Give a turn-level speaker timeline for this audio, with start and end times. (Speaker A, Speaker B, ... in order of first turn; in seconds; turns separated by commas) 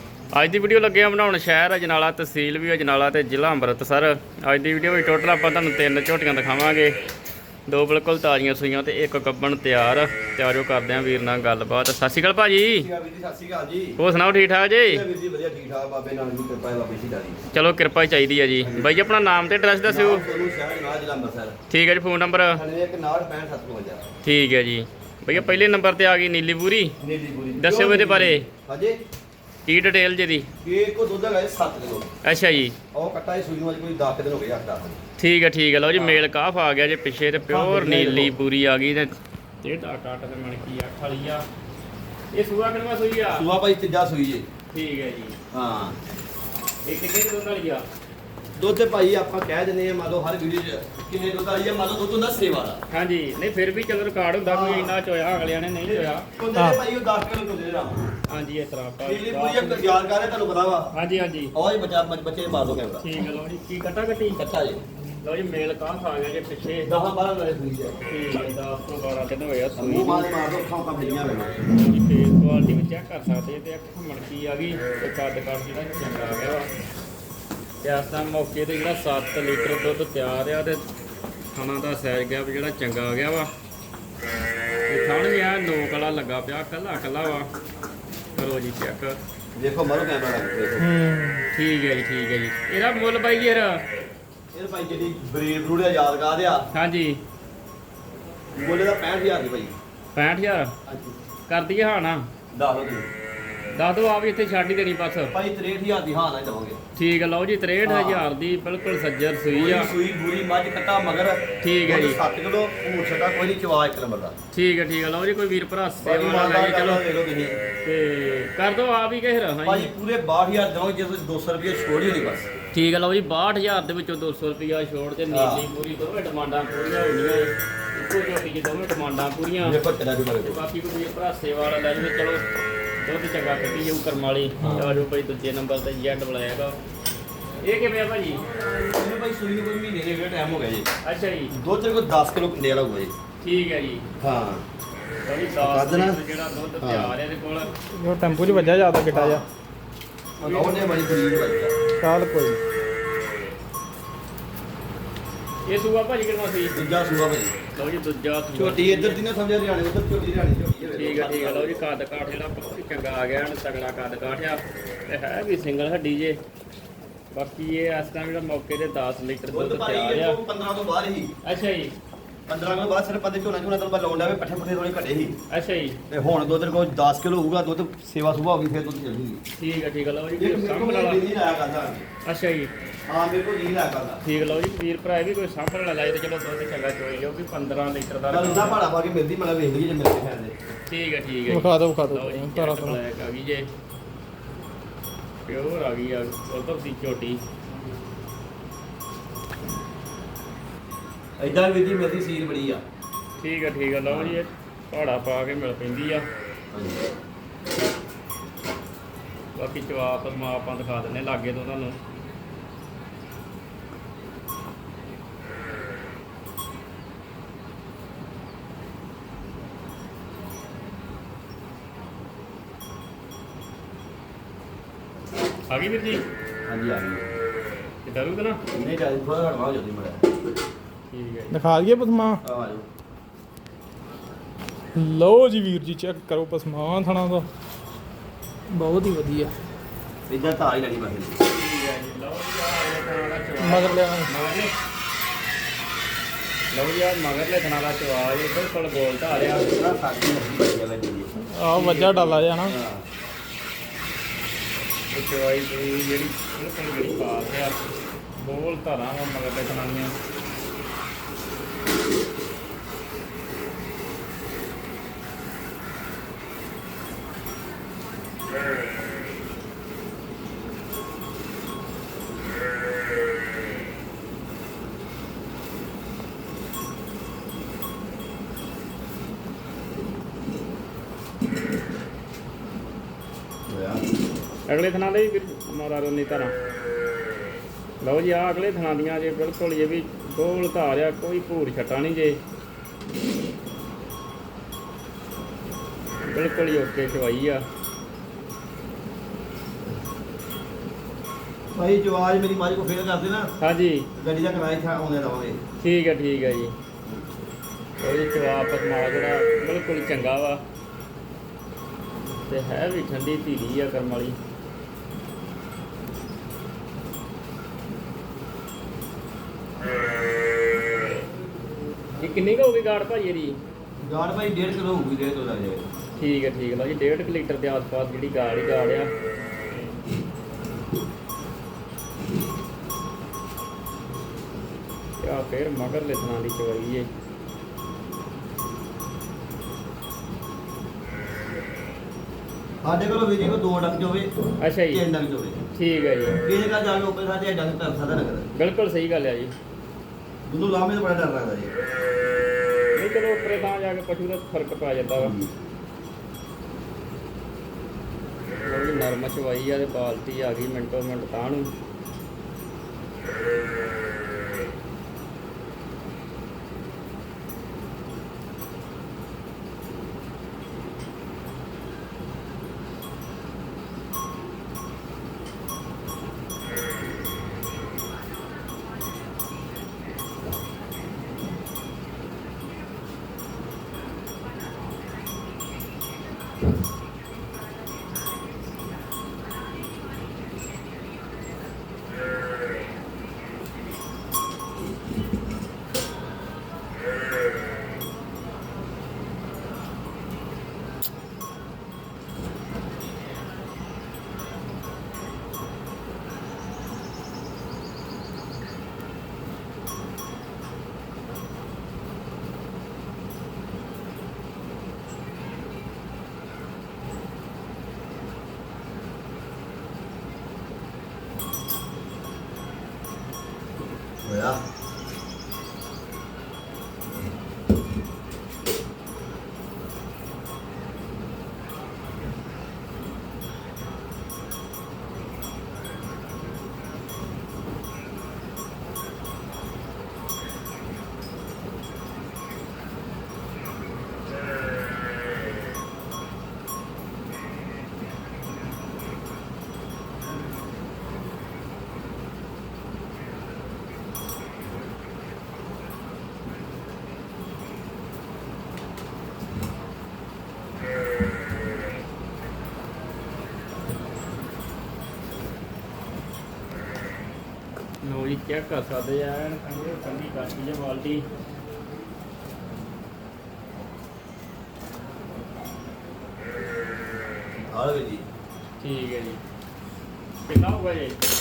Speaker A: 0.3-7.0, Speaker A: 7.7-12.9, Speaker B: 12.7-14.0, Speaker A: 14.0-15.0, Speaker B: 14.8-17.4, Speaker A: 17.5-20.2, Speaker B: 18.6-19.0, Speaker B: 19.9-21.6, Speaker A: 21.7-22.6, Speaker B: 22.5-24.1, Speaker A: 24.2-26.9, Speaker B: 25.3-25.6, Speaker B: 27.0-29.0, Speaker A: 27.6-28.5, Speaker A: 29.7-30.5, Speaker B: 30.6-32.1, Speaker A: 32.2-32.8, Speaker B: 32.9-35.0, Speaker A: 35.2-41.5, Speaker B: 35.9-36.2, Speaker B: 37.5-38.4, Speaker A: 42.3-43.5, Speaker B: 43.3-44.5, Speaker A: 44.7-45.4, Speaker B: 45.5-46.0, Speaker A: 46.9-47.9, Speaker B: 48.6-52.8, Speaker A: 52.9-56.3, Speaker B: 54.5-55.0, Speaker B: 55.8-58.1, Speaker A: 58.3-60.0, Speaker B: 59.0-60.9, Speaker A: 60.9-61.5, Speaker B: 61.5-63.0, Speaker A: 63.0-64.4, Speaker B: 64.3-64.8, Speaker A: 65.2-66.9, Speaker B: 66.9-68.0, Speaker A: 68.1-70.3, Speaker B: 69.8-71.5, Speaker A: 71.7-76.7, Speaker A: 77.8-80.8, Speaker A: 81.5-83.5, Speaker A: 84.9-87.5, Speaker A: 88.4-89.2, Speaker B: 89.6-90.9, Speaker C: 90.8-91.4, Speaker A: 91.5-93.8, Speaker B: 94.5-96.7, Speaker A: 96.7-97.2, Speaker B: 98.5-99.8, Speaker A: 100.2-100.7, Speaker B: 100.9-101.2, Speaker A: 101.5-102.3, Speaker B: 102.5-103.1, Speaker A: 103.7-105.3, Speaker B: 105.3-106.8, Speaker A: 107.0-109.9, Speaker B: 107.8-108.3, Speaker B: 109.5-114.4, Speaker A: 111.6-112.2, Speaker A: 114.5-117.0, Speaker B: 116.0-117.6, Speaker A: 117.8-119.9, Speaker B: 119.7-122.5, Speaker A: 122.7-129.8, Speaker B: 125.3-125.7, Speaker B: 129.6-130.6, Speaker A: 130.4-132.4, Speaker A: 133.0-136.8, Speaker B: 134.6-135.0, Speaker A: 137.6-138.4, Speaker B: 138.6-140.9, Speaker A: 141.0-141.5, Speaker B: 141.5-143.1, Speaker A: 143.4-144.1, Speaker B: 144.2-144.6, Speaker A: 145.2-147.7, Speaker B: 145.6-146.2, Speaker B: 146.8-147.1, Speaker C: 147.9-149.4, Speaker B: 149.1-149.4, Speaker A: 150.4-151.0, Speaker B: 150.4-151.8, Speaker C: 152.0-152.6, Speaker A: 155.7-156.8, Speaker B: 156.7-157.6, Speaker A: 157.7-159.2, Speaker B: 158.6-161.8, Speaker A: 160.9-166.4, Speaker A: 167.3-170.4, Speaker B: 169.5-171.3, Speaker A: 171.4-171.9, Speaker B: 172.5-175.3, Speaker A: 175.5-176.0, Speaker B: 176.1-179.4, Speaker A: 179.6-181.3, Speaker B: 180.4-182.1, Speaker A: 182.2-182.7, Speaker B: 183.1-184.2, Speaker A: 184.2-188.8, Speaker B: 188.3-190.5, Speaker A: 190.9-193.7, Speaker C: 191.5-193.0, Speaker A: 195.5-197.4, Speaker B: 201.4-202.8, Speaker A: 203.4-206.3, Speaker B: 204.1-204.4, Speaker B: 206.7-207.0, Speaker A: 209.6-212.0, Speaker A: 225.7-226.2, Speaker B: 226.7-227.2, Speaker A: 228.1-228.6, Speaker B: 228.7-230.3, Speaker A: 231.1-231.7, Speaker C: 231.5-232.4, Speaker B: 232.4-232.9, Speaker C: 234.9-237.5, Speaker C: 238.7-239.5, Speaker B: 240.3-241.4, Speaker A: 241.4-244.7, Speaker C: 243.6-244.3, Speaker A: 246.7-249.7, Speaker B: 249.4-251.3, Speaker C: 251.5-252.7, Speaker A: 251.7-252.5, Speaker B: 252.6-253.1, Speaker A: 255.1-257.8, Speaker A: 258.4-260.1, Speaker B: 283.7-284.0, Speaker A: 284.7-286.5, Speaker A: 288.0-292.4, Speaker A: 296.2-297.7, Speaker B: 301.8-303.5, Speaker A: 303.6-304.1, Speaker B: 304.2-305.6, Speaker A: 305.8-306.8, Speaker A: 308.0-310.6, Speaker A: 312.4-314.4, Speaker A: 322.2-323.6, Speaker B: 324.0-325.9, Speaker A: 326.2-329.1, Speaker A: 335.2-337.1, Speaker B: 342.8-344.3, Speaker A: 344.6-345.0, Speaker B: 344.9-345.6, Speaker A: 345.7-346.4, Speaker B: 346.4-348.5, Speaker A: 348.6-349.5, Speaker B: 350.5-351.7, Speaker A: 353.0-355.4, Speaker B: 355.2-355.5, Speaker A: 358.6-361.7, Speaker B: 424.2-424.6, Speaker A: 468.0-471.2, Speaker B: 477.7-478.2, Speaker A: 478.8-479.4, Speaker A: 480.5-481.2